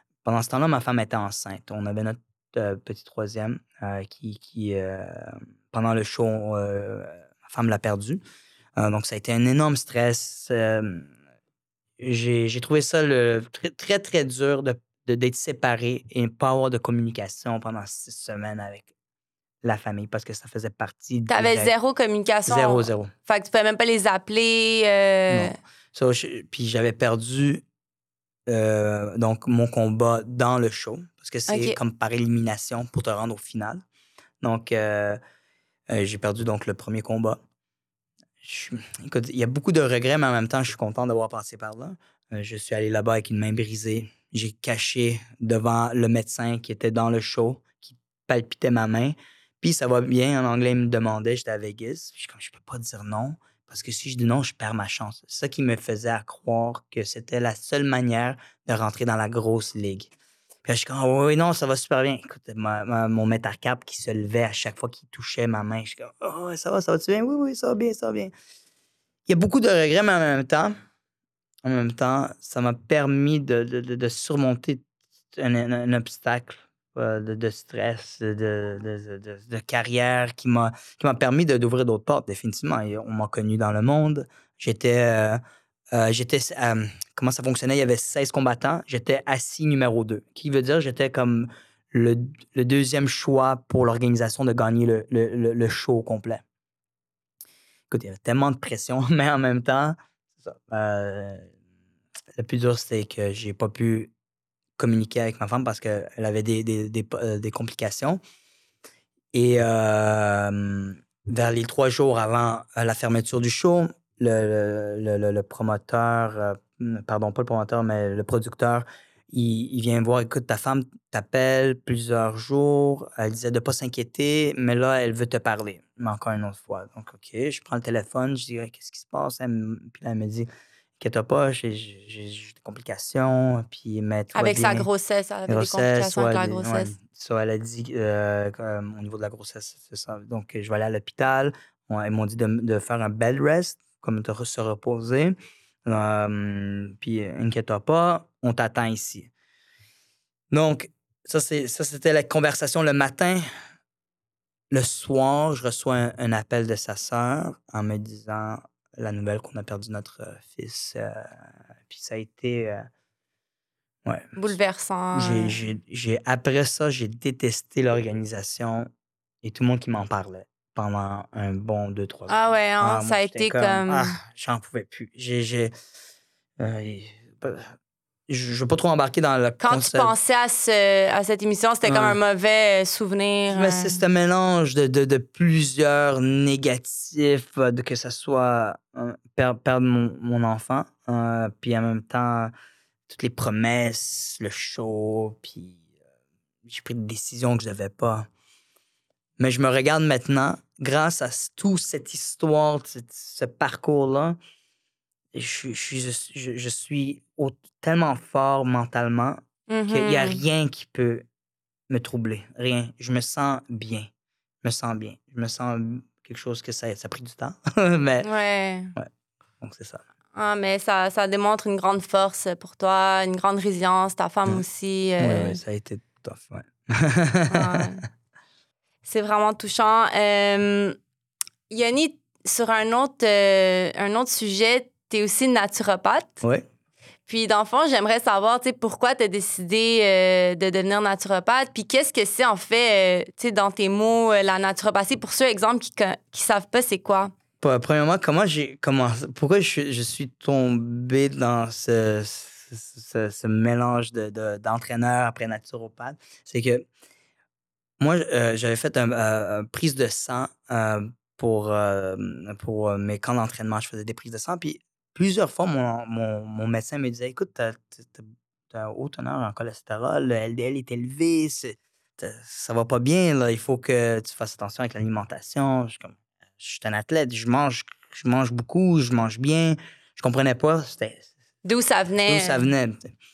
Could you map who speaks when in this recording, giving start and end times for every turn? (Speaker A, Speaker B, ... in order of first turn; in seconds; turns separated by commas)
Speaker A: 0.2-8.2, Speaker A: 8.8-11.1, Speaker A: 12.0-18.9, Speaker A: 19.6-21.7, Speaker B: 21.3-25.5, Speaker A: 22.5-23.1, Speaker A: 25.3-27.6, Speaker A: 28.5-33.8, Speaker B: 31.5-31.8, Speaker A: 34.4-35.2, Speaker A: 35.9-37.4, Speaker A: 38.4-60.1, Speaker A: 60.6-68.3, Speaker A: 69.3-70.7, Speaker A: 71.6-74.8, Speaker A: 75.3-85.4, Speaker A: 85.9-96.4, Speaker A: 97.9-101.5, Speaker A: 102.4-104.1, Speaker A: 104.8-108.2, Speaker A: 109.3-130.5, Speaker A: 131.0-134.9, Speaker B: 134.3-136.9, Speaker A: 135.5-149.3, Speaker A: 150.5-153.4, Speaker A: 154.7-161.3, Speaker A: 161.9-162.8, Speaker A: 164.1-164.5, Speaker B: 164.4-165.6, Speaker A: 165.1-168.9, Speaker A: 169.4-175.7, Speaker B: 172.3-174.1, Speaker A: 176.6-177.7, Speaker A: 178.3-180.1, Speaker B: 179.6-184.0, Speaker A: 181.8-182.2, Speaker A: 183.5-192.5, Speaker A: 193.1-195.8, Speaker A: 196.6-198.3, Speaker A: 199.4-204.4, Speaker A: 205.3-211.2, Speaker B: 209.7-210.4, Speaker A: 211.9-214.1, Speaker A: 214.6-218.3, Speaker B: 218.2-218.9, Speaker A: 219.6-220.1, Speaker B: 220.3-225.6, Speaker A: 225.2-227.9, Speaker B: 227.5-228.0, Speaker B: 229.1-231.0, Speaker B: 231.7-236.4, Speaker B: 237.3-247.3, Speaker A: 247.6-256.9, Speaker A: 258.0-281.3, Speaker B: 281.6-282.7, Speaker A: 282.3-283.1